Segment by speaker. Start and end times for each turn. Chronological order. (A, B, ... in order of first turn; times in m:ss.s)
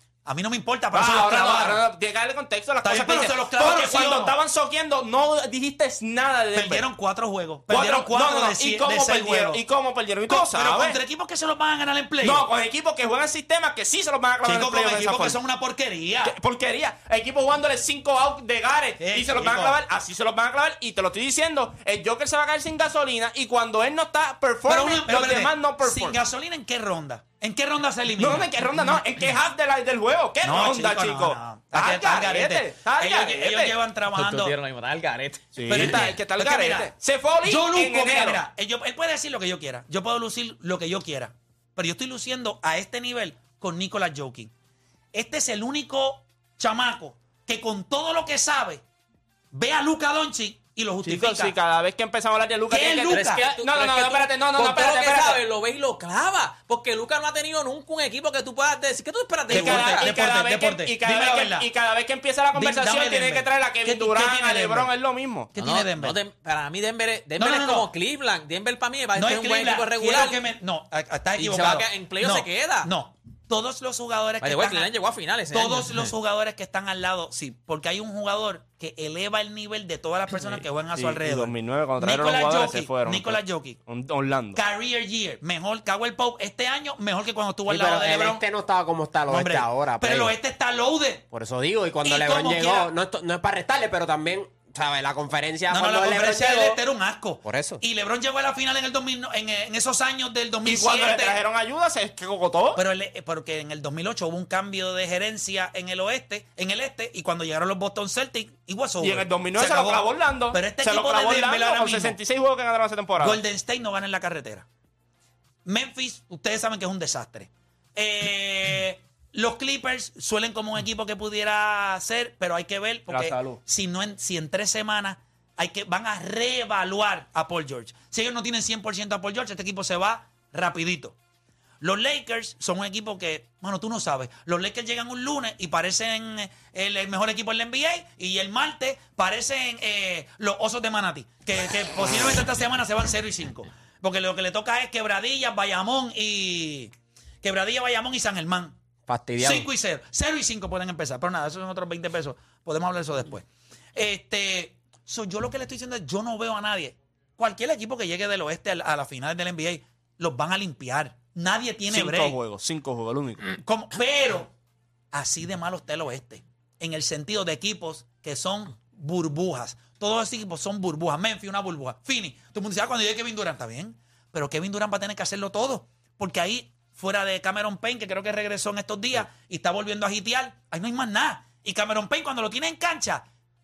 0:00.2-0:01.8 A
0:00.9-0:06.8 B
0:02.8-0:04.3 A
0:06.5-0:09.6 A
0:07.7-0:11.0 B
0:10.3-0:12.4 A
0:12.2-0:15.4 B
0:14.4-0:16.3 A
0:16.2-0:26.2 B
0:19.0-0:19.8 A
0:24.7-0:28.5 A
0:28.2-0:33.8 B
0:30.4-0:34.5 A
0:34.1-0:36.1 C
0:35.5-0:38.4 B
0:35.7-0:44.5 A
0:45.1-0:48.8 A
0:49.5-0:51.5 A
0:51.0-0:55.4 B
0:52.7-0:53.4 A
0:53.1-1:00.1 C
0:59.5-1:05.5 B
0:59.5-1:01.6 A
1:02.5-1:04.9 A
1:05.5-1:06.2 A
1:05.6-1:10.4 C
1:07.4-1:07.9 A
1:09.2-1:14.9 A
1:11.4-1:12.9 C
1:14.4-1:16.1 C
1:15.5-1:23.8 A
1:20.9-1:24.6 B
1:24.6-1:28.4 A
1:27.7-1:30.3 D
1:29.3-1:31.2 A
1:31.3-1:36.8 D
1:32.0-1:32.9 A
1:35.7-1:41.4 A
1:37.4-1:37.8 D
1:40.6-1:42.8 B
1:42.7-1:52.2 A
1:49.0-1:53.4 B
1:53.2-1:54.6 A
1:55.6-2:11.1 A
2:03.1-2:03.6 B
2:11.8-2:26.9 A
2:27.4-2:28.8 A
2:29.1-2:29.7 D
2:29.4-2:33.4 A
2:34.0-2:42.4 A
2:41.9-2:43.4 B
2:43.5-2:44.5 A
2:45.1-3:03.2 A